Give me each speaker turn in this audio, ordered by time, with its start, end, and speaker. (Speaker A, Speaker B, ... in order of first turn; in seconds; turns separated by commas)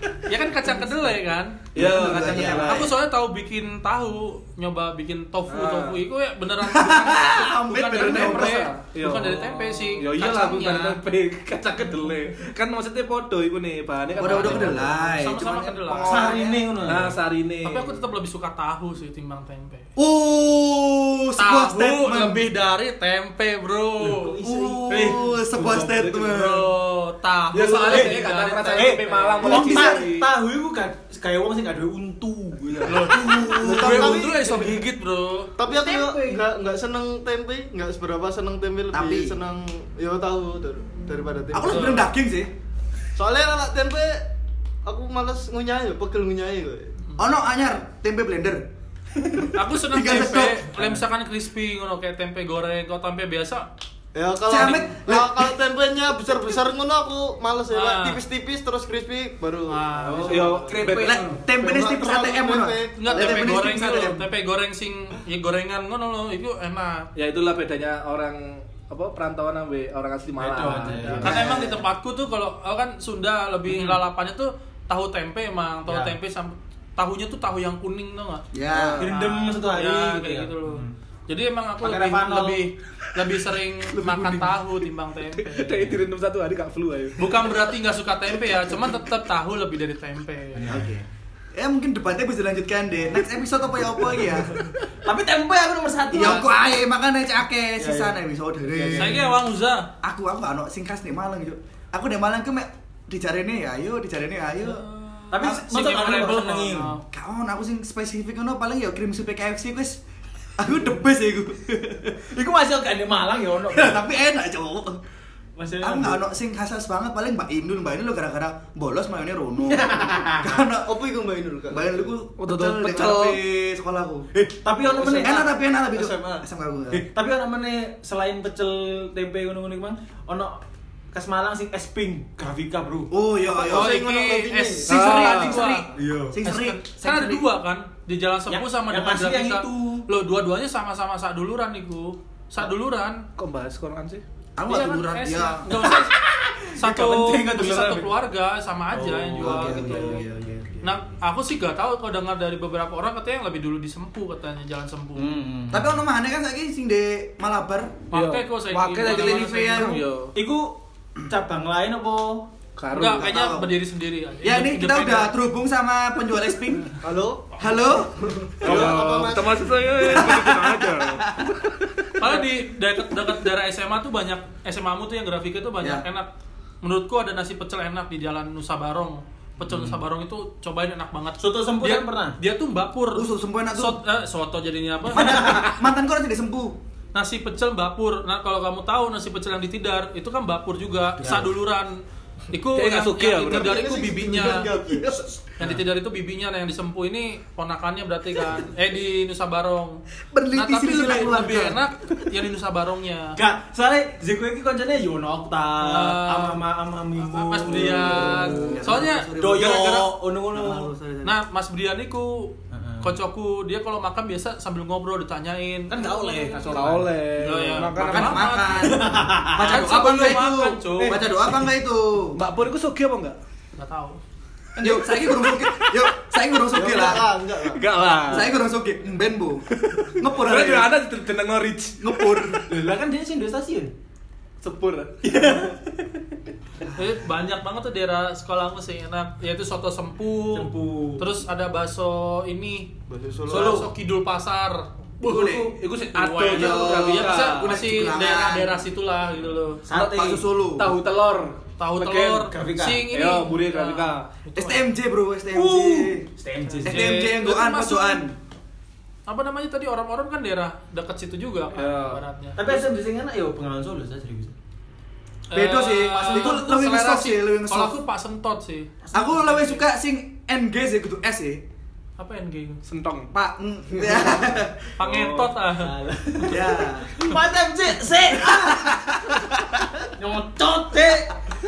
Speaker A: 0.3-1.6, Speaker B: 1.7-2.9, Speaker C: 1.8-2.9, Speaker D: 1.8-2.8, Speaker A: 2.4-11.0, Speaker B: 5.5-6.0, Speaker C: 6.6-8.7, Speaker B: 7.8-14.9, Speaker D: 9.2-9.8, Speaker A: 11.6-12.2, Speaker A: 14.2-16.3, Speaker C: 14.2-16.7, Speaker D: 16.1-17.1, Speaker B: 16.8-18.0, Speaker A: 17.6-19.9, Speaker C: 20.0-22.5, Speaker A: 21.4-24.4, Speaker D: 24.0-25.4, Speaker C: 24.4-26.7, Speaker B: 25.5-26.4, Speaker A: 26.2-29.7, Speaker B: 27.5-30.3, Speaker D: 27.9-34.7, Speaker C: 29.4-30.0, Speaker A: 32.8-35.6, Speaker C: 33.1-34.3, Speaker E: 33.5-34.7, Speaker E: 35.6-42.0, Speaker D: 35.7-36.4, Speaker C: 38.9-39.4, Speaker C: 41.5-42.5, Speaker A: 41.7-42.1, Speaker E: 43.2-44.3, Speaker E: 44.9-46.9, Speaker C: 47.2-48.7, Speaker A: 49.5-53.7, Speaker C: 49.8-50.7, Speaker E: 54.1-61.0, Speaker C: 54.5-55.5, Speaker A: 57.7-58.2, Speaker A: 59.7-60.6, Speaker D: 60.0-61.4, Speaker B: 60.2-61.3, Speaker C: 61.0-64.3, Speaker E: 61.6-63.7, Speaker A: 63.0-67.1, Speaker B: 67.2-71.5, Speaker D: 70.4-71.5, Speaker A: 71.0-78.5, Speaker C: 71.2-71.8, Speaker D: 75.9-76.2, Speaker C: 78.5-79.0, Speaker B: 78.7-79.1, Speaker D: 79.0-80.9, Speaker A: 79.1-86.0, Speaker D: 81.8-82.6, Speaker B: 84.0-84.4, Speaker B: 85.3-87.6, Speaker A: 87.2-90.6, Speaker D: 90.5-90.9, Speaker C: 90.7-94.6, Speaker D: 95.0-96.5, Speaker C: 96.1-99.3, Speaker A: 96.2-96.4, Speaker D: 97.8-98.2, Speaker D: 98.7-99.3, Speaker A: 99.0-99.9, Speaker C: 100.0-104.8, Speaker A: 104.6-107.0, Speaker D: 105.3-106.9, Speaker C: 107.1-110.0, Speaker C: 110.6-112.2, Speaker D: 112.3-114.1, Speaker C: 113.7-115.0, Speaker D: 115.6-116.2, Speaker C: 115.8-120.9, Speaker D: 119.7-120.6, Speaker E: 120.9-122.1, Speaker C: 121.7-124.3, Speaker B: 122.4-123.4, Speaker D: 124.3-130.6, Speaker E: 125.0-125.3, Speaker C: 125.0-127.0, Speaker D: 131.1-133.1, Speaker C: 133.1-134.0, Speaker E: 133.5-134.9, Speaker A: 133.7-135.9, Speaker B: 134.9-135.7, Speaker C: 134.9-137.5, Speaker D: 135.9-136.4, Speaker A: 136.4-143.3, Speaker D: 138.5-140.1, Speaker B: 143.4-144.2, Speaker C: 144.6-145.8, Speaker A: 144.7-146.2, Speaker D: 146.1-148.1, Speaker A: 146.7-150.2, Speaker D: 148.9-150.3, Speaker C: 149.4-150.9, Speaker A: 150.8-155.3, Speaker D: 155.2-156.0, Speaker C: 155.7-158.0, Speaker A: 158.1-160.0, Speaker B: 158.1-160.4, Speaker C: 159.0-160.0, Speaker D: 160.3-162.5, Speaker B: 162.8-163.3, Speaker A: 162.9-165.3, Speaker C: 163.0-163.8, Speaker C: 164.4-166.9, Speaker E: 167.0-167.6, Speaker C: 167.6-168.9, Speaker E: 168.2-170.6, Speaker B: 168.6-172.0, Speaker D: 168.6-169.0, Speaker C: 170.0-171.5, Speaker A: 172.2-176.3, Speaker A: 176.8-185.7, Speaker D: 179.7-180.0, Speaker D: 181.4-182.4, Speaker C: 183.2-184.0, Speaker C: 185.2-186.8, Speaker D: 185.2-185.7, Speaker A: 187.2-191.9, Speaker D: 191.2-191.5, Speaker A: 192.5-194.8, Speaker B: 192.7-193.9, Speaker E: 193.5-195.4, Speaker A: 195.6-200.0, Speaker C: 200.3-201.9, Speaker A: 200.5-203.4, Speaker D: 203.4-210.9, Speaker A: 205.8-206.6, Speaker A: 207.3-210.0, Speaker C: 207.7-210.0, Speaker C: 210.5-211.3, Speaker A: 211.2-216.8, Speaker D: 212.7-213.2, Speaker D: 215.9-217.1, Speaker B: 216.7-218.7, Speaker A: 217.4-219.1, Speaker C: 217.9-222.4, Speaker D: 218.8-219.9, Speaker A: 219.7-221.2, Speaker B: 222.3-223.4, Speaker A: 223.8-224.2, Speaker C: 224.8-227.3, Speaker E: 226.7-228.0, Speaker D: 226.8-227.1, Speaker B: 227.6-228.5, Speaker C: 228.3-230.9, Speaker B: 229.8-232.6, Speaker C: 232.0-232.7, Speaker D: 232.7-233.9, Speaker B: 234.6-235.7, Speaker D: 235.2-235.9, Speaker A: 237.0-242.9, Speaker D: 240.5-241.2, Speaker E: 243.1-243.9, Speaker D: 243.5-243.9, Speaker A: 243.5-249.8, Speaker C: 245.2-245.8, Speaker B: 245.3-247.7, Speaker C: 246.5-248.8, Speaker D: 249.8-250.4, Speaker B: 249.9-252.5, Speaker C: 250.2-250.9, Speaker A: 251.8-254.9, Speaker D: 252.5-253.0, Speaker B: 253.1-254.3, Speaker C: 254.6-256.3, Speaker D: 255.5-257.1, Speaker A: 256.6-258.2, Speaker C: 256.9-258.4, Speaker A: 259.3-262.9, Speaker B: 261.7-262.2, Speaker D: 262.6-264.6, Speaker A: 265.5-269.0, Speaker C: 265.5-268.0, Speaker D: 269.0-269.5, Speaker C: 269.1-271.6, Speaker A: 272.2-272.8, Speaker B: 272.8-273.5, Speaker C: 273.4-274.9, Speaker A: 275.0-276.0, Speaker B: 275.0-275.6, Speaker D: 275.8-279.0, Speaker C: 276.5-277.2, Speaker C: 278.5-279.4, Speaker D: 280.2-281.4